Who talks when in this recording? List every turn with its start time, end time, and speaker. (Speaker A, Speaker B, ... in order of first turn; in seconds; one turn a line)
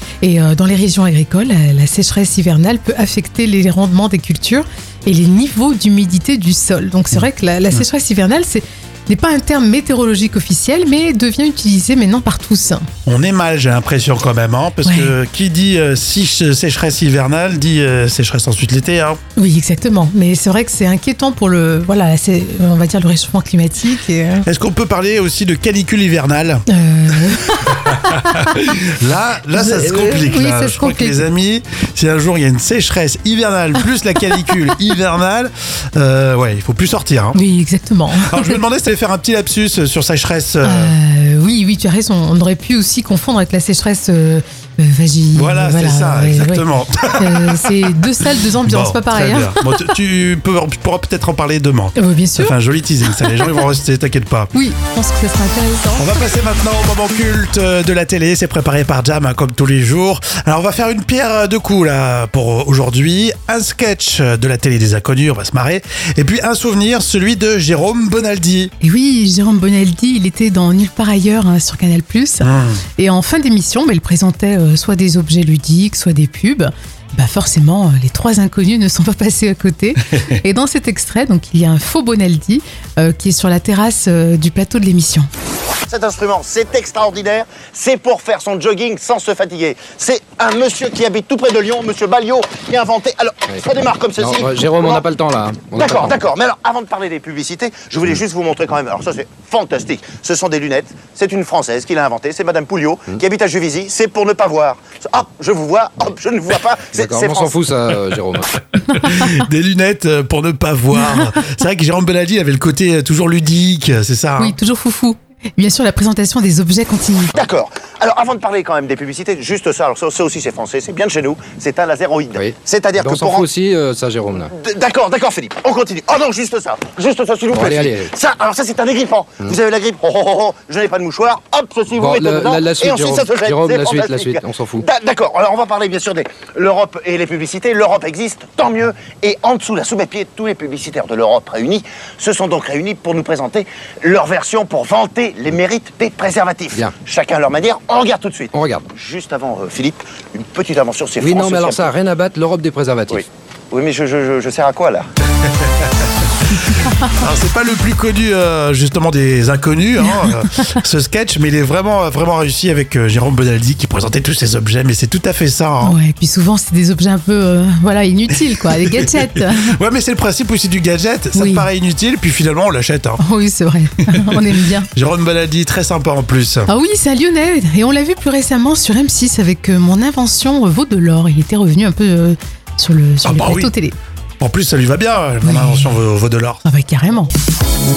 Speaker A: 0.2-12.8
Speaker B: 13.0-19.2
Speaker A: 14.8-15.1
Speaker A: 19.4-24.5
Speaker B: 24.4-26.6
Speaker A: 26.7-28.4
Speaker B: 27.6-37.4
Speaker A: 29.5-31.2
Speaker A: 37.3-38.6
Speaker B: 38.1-40.9
Speaker A: 40.6-49.9
Speaker B: 45.3-54.5
Speaker A: 52.0-52.5
Speaker A: 53.1-53.4
Speaker A: 54.5-56.2
Speaker B: 56.0-68.7
Speaker A: 68.8-85.3
Speaker B: 72.4-72.8
Speaker C: 85.9-95.0
Speaker D: 94.2-96.2
Speaker C: 95.7-107.6
Speaker D: 106.9-108.5
Speaker B: 108.7-114.5
Speaker A: 108.9-109.3
Speaker A: 114.4-117.3
Speaker C: 117.3-123.5
Speaker D: 122.3-124.5
Speaker C: 124.5-151.9
Speaker D: 127.5-128.1
Speaker D: 131.9-134.8
Speaker D: 148.5-148.8
Speaker D: 151.2-153.3
Speaker C: 153.1-155.1
Speaker B: 155.4-166.0
Speaker A: 165.8-169.8
Speaker B: 168.6-173.2
Speaker A: 171.3-171.7
Speaker A: 173.2-174.9
Speaker B: 174.1-176.7
Speaker A: 176.7-183.9
Speaker B: 183.2-183.7
Speaker B: 184.4-186.6
Speaker A: 185.4-185.9
Speaker A: 186.6-187.3